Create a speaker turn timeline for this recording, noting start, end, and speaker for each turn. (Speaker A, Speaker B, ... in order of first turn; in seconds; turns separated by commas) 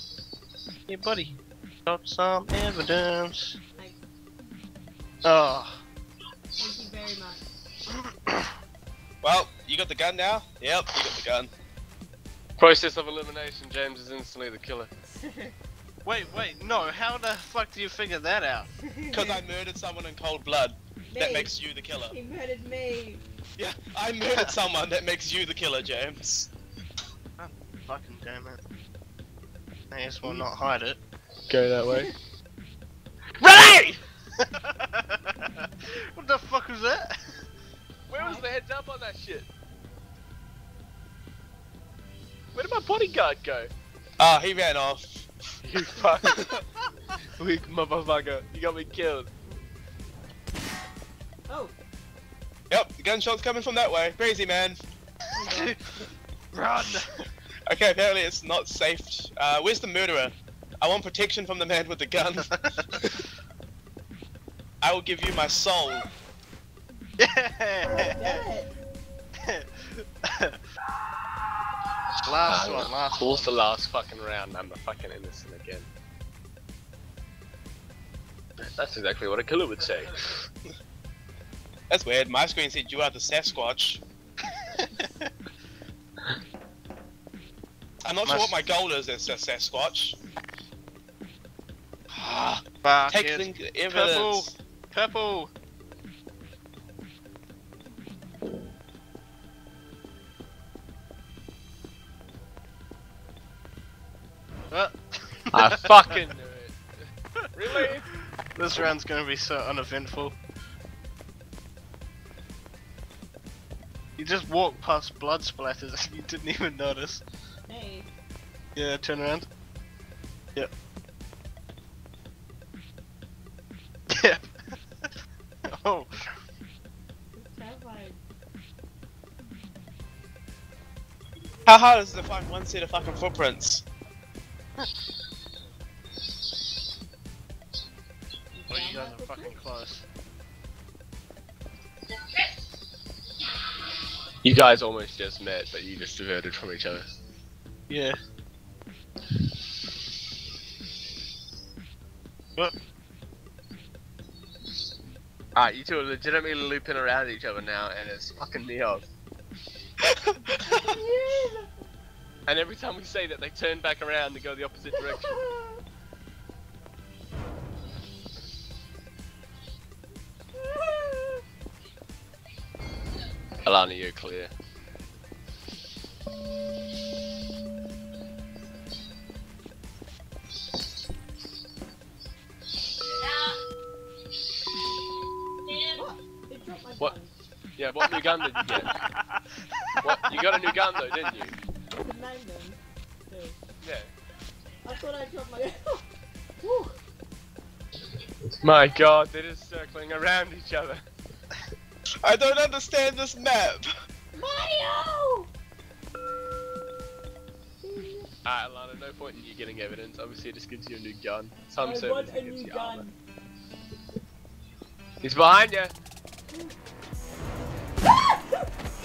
Speaker A: 0.9-3.6, Speaker A: 5.2-5.8, Speaker B: 6.6-7.4, Speaker A: 7.9-8.4, Speaker C: 9.2-11.5, Speaker D: 12.6-14.9, Speaker B: 15.2-15.5, Speaker A: 16.0-18.7, Speaker B: 18.8-19.4, Speaker C: 19.1-22.1, Speaker B: 21.0-23.2, Speaker C: 23.6-26.5, Speaker A: 24.3-24.5, Speaker A: 27.4-28.6, Speaker A: 29.9-31.0, Speaker D: 31.5-32.1, Speaker D: 33.4-34.0, Speaker A: 34.4-37.4, Speaker D: 38.1-39.5, Speaker B: 38.1-38.5, Speaker D: 42.5-43.7, Speaker C: 44.2-45.3, Speaker D: 45.6-46.4, Speaker C: 46.2-46.6, Speaker D: 47.4-49.3, Speaker B: 51.5-51.7, Speaker C: 52.7-54.8, Speaker B: 55.3-55.8, Speaker A: 55.4-55.9, Speaker A: 56.5-57.2, Speaker C: 57.7-62.5, Speaker A: 62.4-62.8, Speaker C: 64.8-66.1, Speaker A: 67.2-68.4, Speaker B: 67.8-68.7, Speaker A: 69.4-70.6, Speaker A: 72.2-73.5, Speaker D: 72.4-75.9, Speaker D: 78.6-80.2, Speaker C: 81.9-84.0, Speaker A: 84.8-85.3, Speaker C: 88.0-90.2, Speaker A: 88.2-88.6, Speaker C: 92.1-94.5, Speaker A: 92.8-95.5, Speaker A: 104.7-106.2, Speaker D: 105.5-106.8, Speaker D: 107.5-108.1, Speaker A: 108.5-110.3, Speaker A: 114.2-117.2, Speaker B: 117.7-118.1, Speaker A: 118.8-119.5, Speaker A: 124.1-124.4, Speaker A: 125.7-126.1, Speaker B: 127.3-128.2, Speaker C: 131.7-133.8, Speaker B: 138.5-139.6, Speaker A: 138.7-140.1, Speaker D: 144.4-147.1, Speaker A: 147.9-148.1, Speaker D: 155.5-159.1, Speaker C: 160.0-160.6, Speaker B: 160.7-161.7, Speaker D: 162.5-165.4, Speaker B: 164.9-165.8, Speaker B: 170.6-171.4, Speaker D: 173.6-174.5, Speaker B: 185.9-187.3, Speaker D: 187.8-188.9, Speaker A: 188.6-190.8, Speaker D: 190.0-191.5, Speaker B: 191.9-193.6, Speaker D: 193.8-194.1, Speaker B: 194.8-196.1, Speaker B: 196.6-196.9, Speaker D: 198.6-201.0, Speaker C: 202.2-203.9, Speaker B: 204.3-205.5, Speaker B: 207.8-208.3, Speaker D: 208.4-213.1, Speaker B: 211.8-213.2, Speaker D: 215.2-215.9, Speaker B: 218.1-218.7